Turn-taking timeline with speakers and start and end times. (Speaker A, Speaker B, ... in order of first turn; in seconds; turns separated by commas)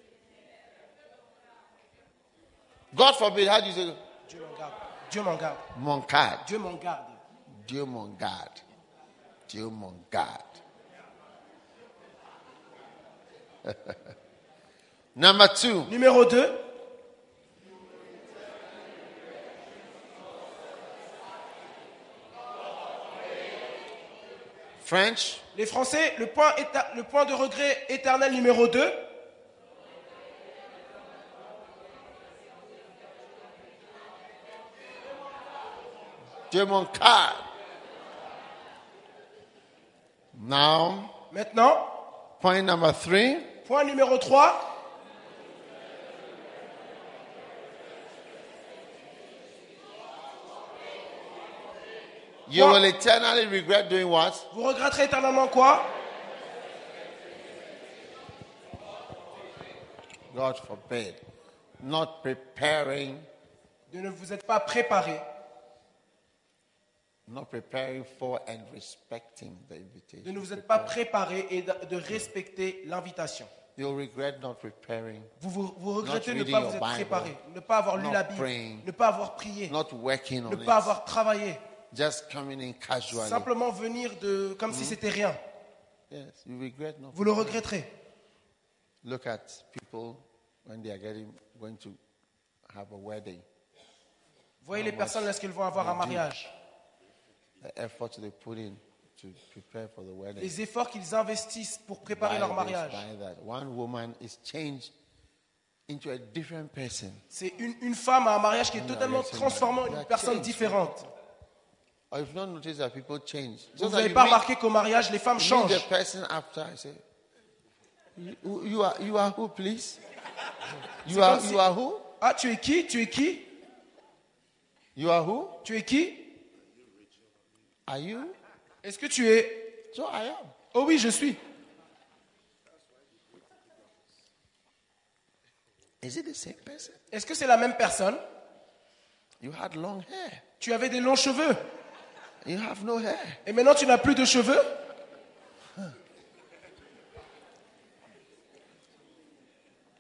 Speaker A: 2.9-4.0, Speaker B: 4.3-5.7, Speaker A: 5.7-6.5, Speaker B: 6.4-7.2, Speaker A: 7.5-8.6, Speaker A: 9.5-10.6, Speaker A: 13.6-14.0, Speaker A: 15.2-15.9, Speaker B: 15.9-16.6, Speaker A: 24.8-25.4, Speaker B: 25.5-29.0, Speaker A: 36.5-37.5, Speaker A: 40.3-41.2, Speaker B: 41.3-41.9, Speaker A: 42.4-43.5, Speaker B: 43.6-44.7, Speaker A: 52.5-54.5, Speaker B: 52.5-52.8, Speaker B: 54.5-55.9, Speaker A: 60.3-61.2, Speaker A: 61.8-63.3, Speaker B: 63.9-65.2, Speaker A: 67.3-71.0, Speaker B: 70.2-73.5, Speaker A: 73.8-75.3, Speaker B: 75.4-79.7, Speaker A: 76.0-77.4, Speaker A: 78.0-78.9, Speaker A: 79.7-81.0, Speaker B: 80.5-81.6, Speaker A: 81.9-83.5, Speaker B: 83.1-85.4, Speaker A: 84.7-85.0, Speaker A: 86.1-87.7, Speaker B: 87.1-87.9, Speaker A: 89.0-92.0, Speaker A: 92.7-93.5, Speaker B: 94.6-96.5, Speaker A: 94.7-96.3, Speaker A: 97.6-100.6, Speaker B: 100.4-103.0, Speaker A: 102.1-104.9, Speaker A: 105.9-107.2, Speaker B: 107.3-111.1, Speaker A: 108.7-110.9, Speaker A: 112.1-114.5, Speaker B: 113.8-115.8, Speaker A: 115.4-117.0, Speaker A: 118.2-120.0, Speaker A: 121.0-122.0, Speaker B: 121.1-121.6, Speaker B: 122.2-123.5, Speaker A: 125.0-125.6, Speaker B: 125.6-126.3, Speaker A: 127.9-128.4, Speaker B: 128.8-129.7, Speaker A: 129.9-130.5, Speaker B: 130.7-131.4, Speaker A: 136.0-137.0, Speaker B: 137.1-138.2, Speaker A: 139.4-140.4, Speaker B: 140.6-141.6, Speaker A: 142.4-143.4, Speaker B: 143.5-144.7